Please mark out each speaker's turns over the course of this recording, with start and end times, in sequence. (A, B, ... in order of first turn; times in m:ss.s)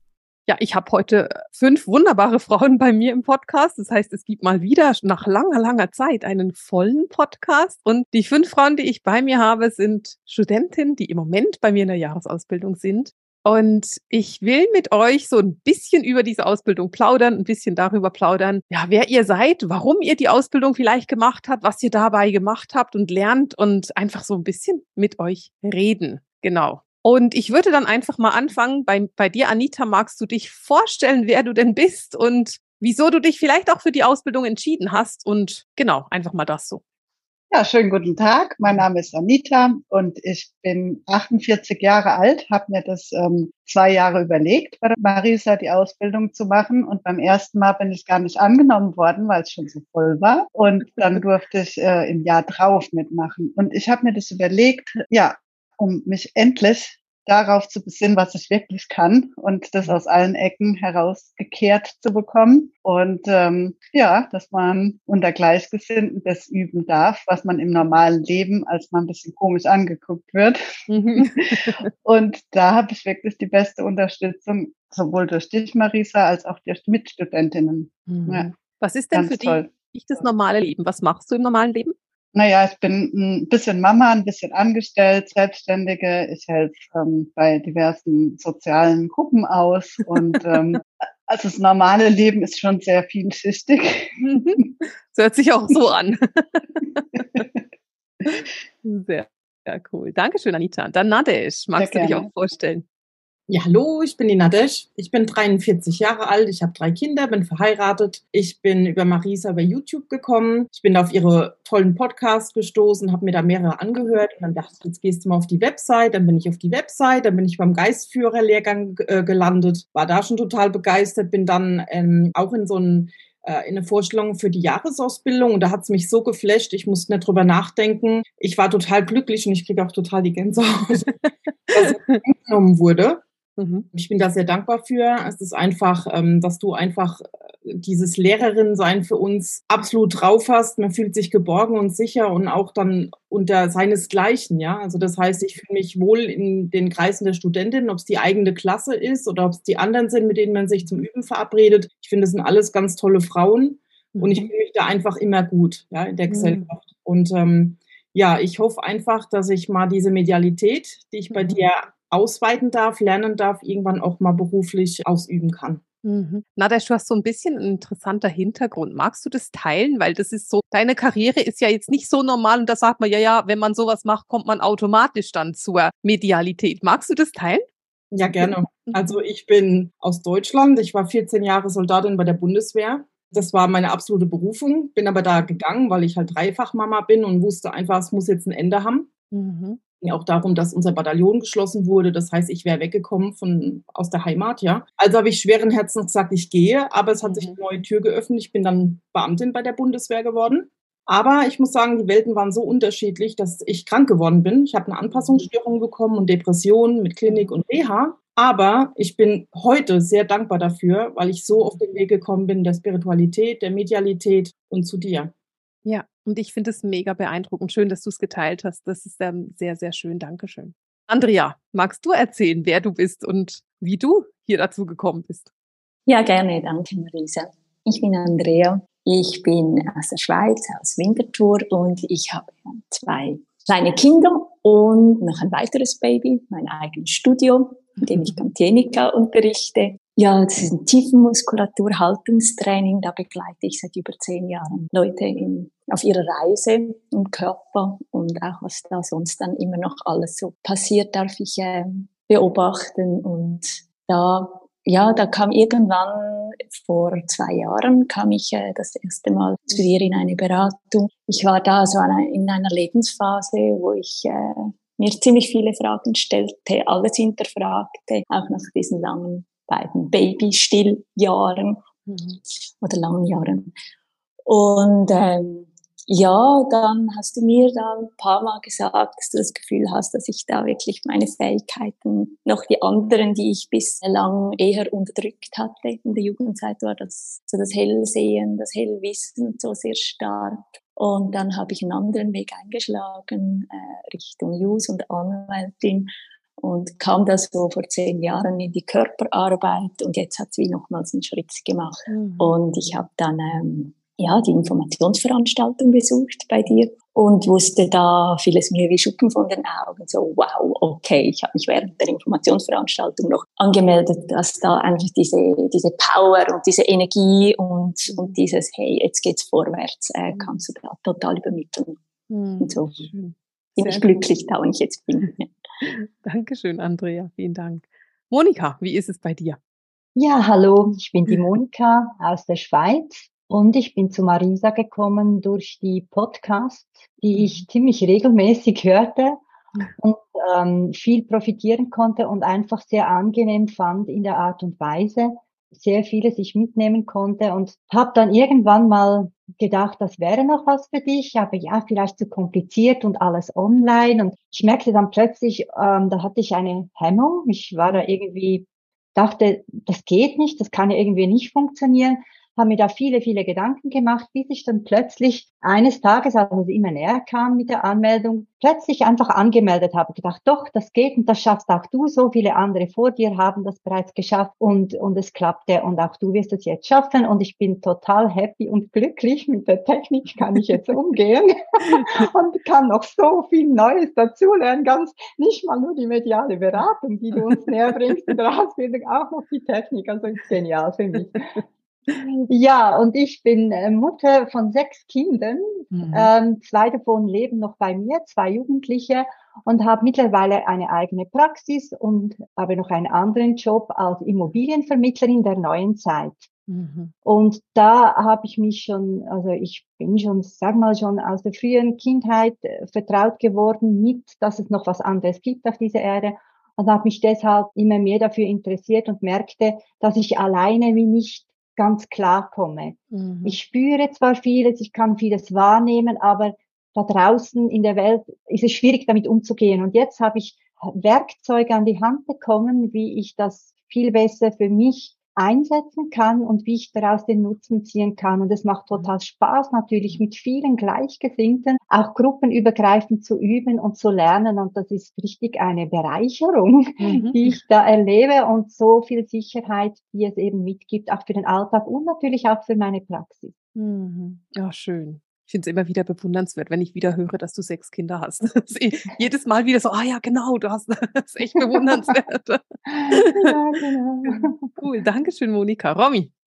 0:00.5-0:36.8 A
0:37.5-1:10.6 B
1:10.9-1:11.9 A
1:11.2-1:18.5 B
1:18.1-1:21.9 A
1:19.1-1:20.2 B
1:22.3-1:34.2 B
1:34.2-1:37.4 A
1:38.3-1:42.8 A
1:41.8-1:42.3 B
1:43.5-2:11.2 C
2:11.7-2:13.2 C
2:11.7-2:12.2 A
2:13.6-2:13.8 A
2:13.9-2:45.8 C
2:34.2-2:34.5 A
2:36.3-2:36.7 A
2:41.3-2:41.6 A
2:46.0-2:57.7 A
2:58.1-3:09.1 C
2:58.4-2:59.2 A
3:09.3-3:09.8 A
3:10.0-3:35.3 C
3:17.2-3:17.6 A
3:25.1-3:25.5 A
3:27.3-3:27.5 A
3:35.8-3:45.5 A
3:46.1-4:31.8 D
3:58.1-3:58.4 A
4:32.1-4:32.4 A
4:32.8-4:33.7 D
4:34.5-5:22.0 D
5:02.1-5:02.5 A
5:18.1-5:18.4 A
5:22.3-5:24.2 A
5:22.6-5:23.1 D
5:23.8-5:25.5 D
5:25.8-5:29.6 A
5:30.2-5:39.4 E
5:37.3-5:37.6 A
5:40.0-6:46.5 E
6:21.9-6:22.2 A
6:35.9-6:36.3 A
6:46.7-6:47.1 A
6:47.2-7:33.5 E
7:03.1-7:03.6 A
7:27.0-7:27.6 A
7:33.8-7:43.5 A
7:41.7-7:42.2 E
7:42.9-7:44.8 E
7:44.2-7:46.3 A